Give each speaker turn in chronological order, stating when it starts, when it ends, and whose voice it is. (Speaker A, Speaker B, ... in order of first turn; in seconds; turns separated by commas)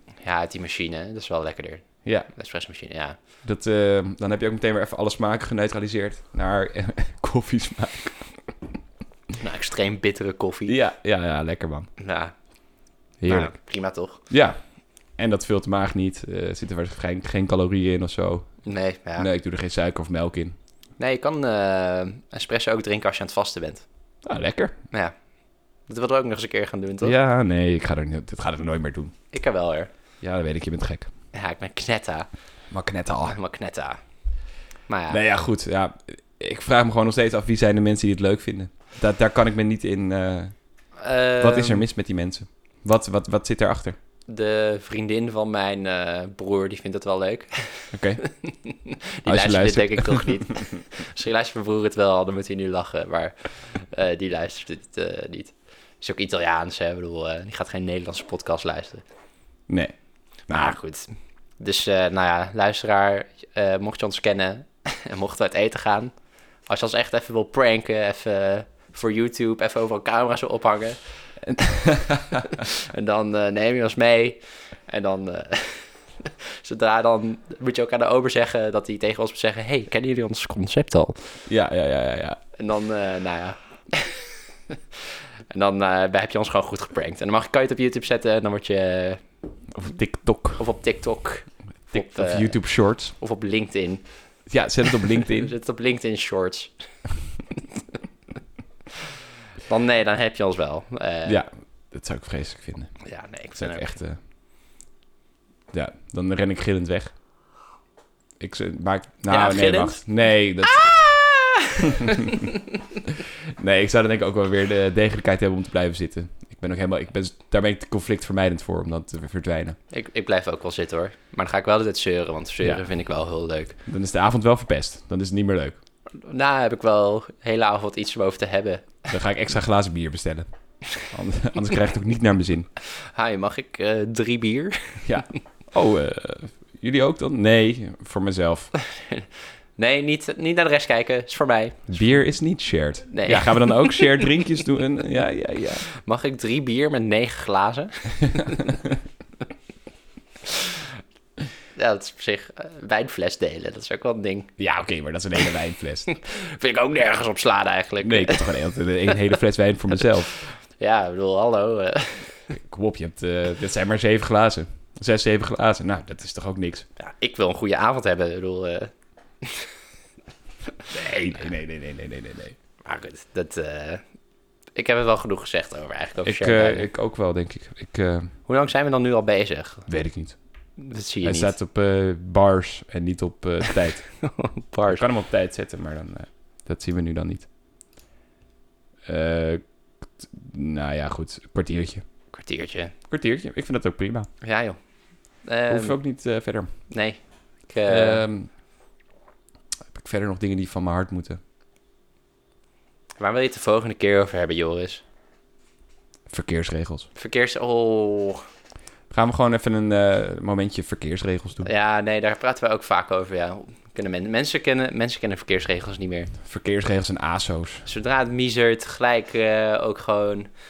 Speaker A: 0.2-3.2, Speaker B: 3.4-8.3, Speaker A: 9.4-10.8, Speaker B: 10.7-11.9, Speaker A: 12.0-12.3, Speaker B: 13.2-13.5, Speaker A: 13.2-14.2, Speaker B: 14.3-14.6, Speaker B: 15.2-18.6, Speaker A: 18.6-19.3, Speaker B: 19.2-20.5, Speaker A: 21.0-23.9, Speaker B: 24.2-24.7, Speaker A: 25.9-27.1, Speaker B: 27.0-29.1, Speaker A: 29.3-29.9, Speaker B: 30.2-31.1, Speaker A: 31.3-32.3, Speaker B: 32.7-33.4, Speaker A: 33.2-34.0, Speaker A: 34.9-35.2, Speaker B: 35.1-40.5, Speaker A: 41.0-41.9, Speaker B: 41.4-44.0, Speaker A: 44.3-59.0, Speaker B: 47.9-48.2, Speaker B: 49.2-50.6, Speaker B: 60.5-60.8, Speaker A: 60.5-66.1, Speaker A: 66.7-71.0, Speaker B: 71.4-72.6, Speaker A: 72.3-81.2, Speaker B: 81.5-82.4, Speaker A: 82.6-85.0, Speaker A: 85.5-89.2, Speaker B: 89.7-90.6, Speaker A: 90.6-92.6, Speaker B: 91.9-93.1, Speaker A: 93.1-94.1, Speaker B: 94.5-95.5, Speaker A: 95.0-96.7, Speaker A: 97.5-97.8, Speaker A: 99.7-101.4, Speaker B: 101.2-103.0, Speaker A: 103.0-103.9, Speaker B: 103.6-104.2, Speaker B: 105.7-107.1, Speaker B: 108.4-111.0, Speaker A: 109.3-110.0, Speaker A: 110.6-112.8, Speaker B: 111.8-112.5, Speaker B: 113.6-119.8, Speaker A: 119.9-123.8, Speaker B: 123.9-125.8, Speaker A: 126.2-129.1, Speaker B: 129.1-130.5, Speaker B: 131.0-132.7, Speaker A: 133.0-135.2, Speaker B: 135.0-138.7, Speaker A: 138.8-142.1, Speaker B: 141.9-145.9, Speaker A: 143.1-144.2, Speaker A: 145.9-148.8, Speaker B: 148.3-149.0, Speaker A: 150.5-150.8, Speaker A: 151.8-154.5, Speaker B: 154.6-156.1, Speaker A: 156.1-159.1, Speaker B: 158.0-160.4, Speaker A: 160.8-162.3, Speaker B: 162.5-166.8, Speaker A: 167.0-168.9, Speaker A: 169.4-169.7, Speaker B: 170.9-172.5, Speaker A: 172.8-174.0, Speaker A: 174.8-176.9, Speaker B: 176.2-178.3, Speaker A: 178.5-179.9, Speaker B: 179.9-180.4, Speaker A: 180.8-181.5, Speaker B: 181.2-184.1, Speaker A: 183.7-185.0, Speaker B: 184.9-187.5, Speaker B: 189.1-189.6, Speaker B: 190.2-192.0, Speaker A: 192.3-192.9, Speaker B: 193.1-194.3, Speaker A: 194.4-194.8, Speaker A: 195.4-196.0, Speaker B: 195.7-196.7, Speaker A: 196.9-198.2, Speaker B: 197.9-198.5, Speaker B: 199.9-201.4, Speaker A: 203.2-205.0, Speaker B: 206.3-207.1, Speaker A: 207.2-208.4, Speaker B: 209.1-211.7, Speaker A: 211.6-216.3, Speaker B: 216.4-217.8, Speaker A: 217.8-220.5